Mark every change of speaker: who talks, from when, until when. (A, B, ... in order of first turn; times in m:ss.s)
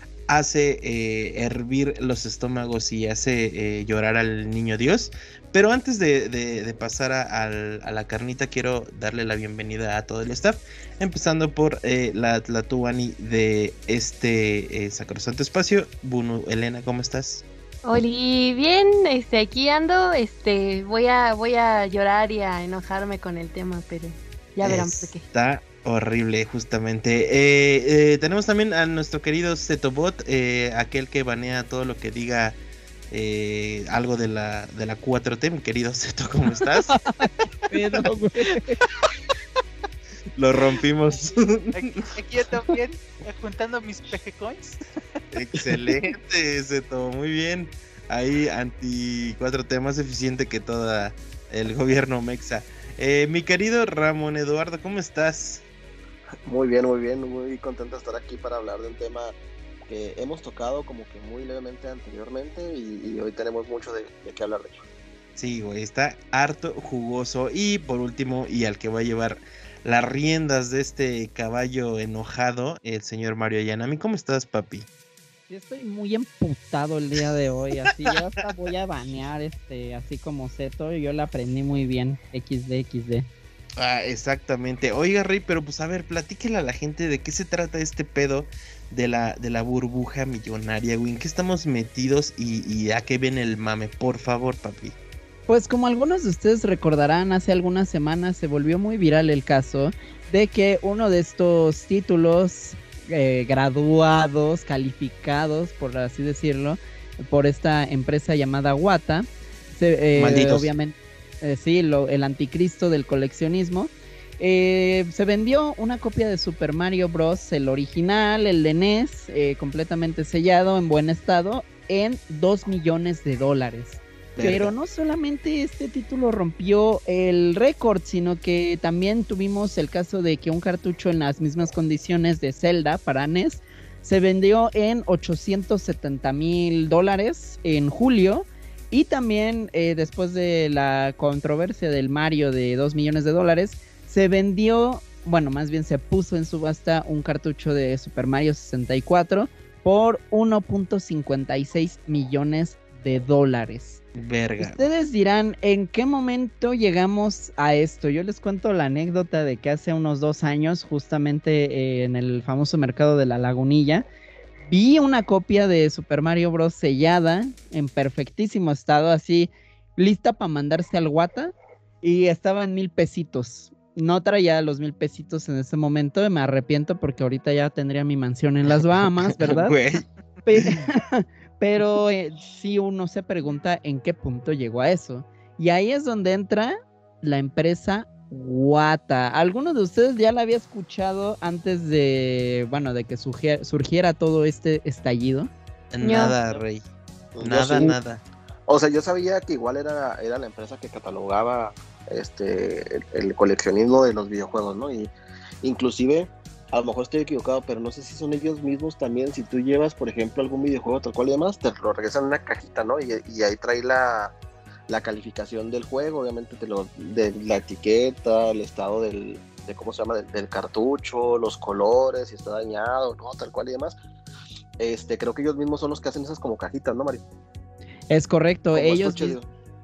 0:00.3-0:17.4 A
0:17.8-0:25.2 B
0:24.6-0:32.6 A
0:33.1-0:36.9 A
0:36.9-0:38.8 C
0:40.4-0:42.1 A
0:41.7-0:44.8 D
0:45.3-0:55.6 A
0:56.4-0:59.3 E
0:59.9-1:04.8 E
1:05.4-1:14.9 A
1:15.5-1:23.3 C
1:17.8-1:18.1 A
1:23.8-1:34.9 A
1:35.5-2:34.0 C
1:50.1-1:50.7 A
2:04.4-2:04.7 A
2:34.2-2:34.9 A
2:34.6-2:44.1 C
2:44.7-2:59.8 C
2:58.8-3:00.8 A
3:00.4-3:15.5 C
3:15.9-3:16.8 A
3:16.0-3:16.3 B
3:17.3-3:18.0 E
3:17.4-3:18.2 A
3:18.7-3:25.1 E
3:25.6-3:34.4 E
3:34.9-3:44.0 E
3:44.8-3:47.2 E
3:48.1-3:49.4 C
3:48.7-3:49.5 E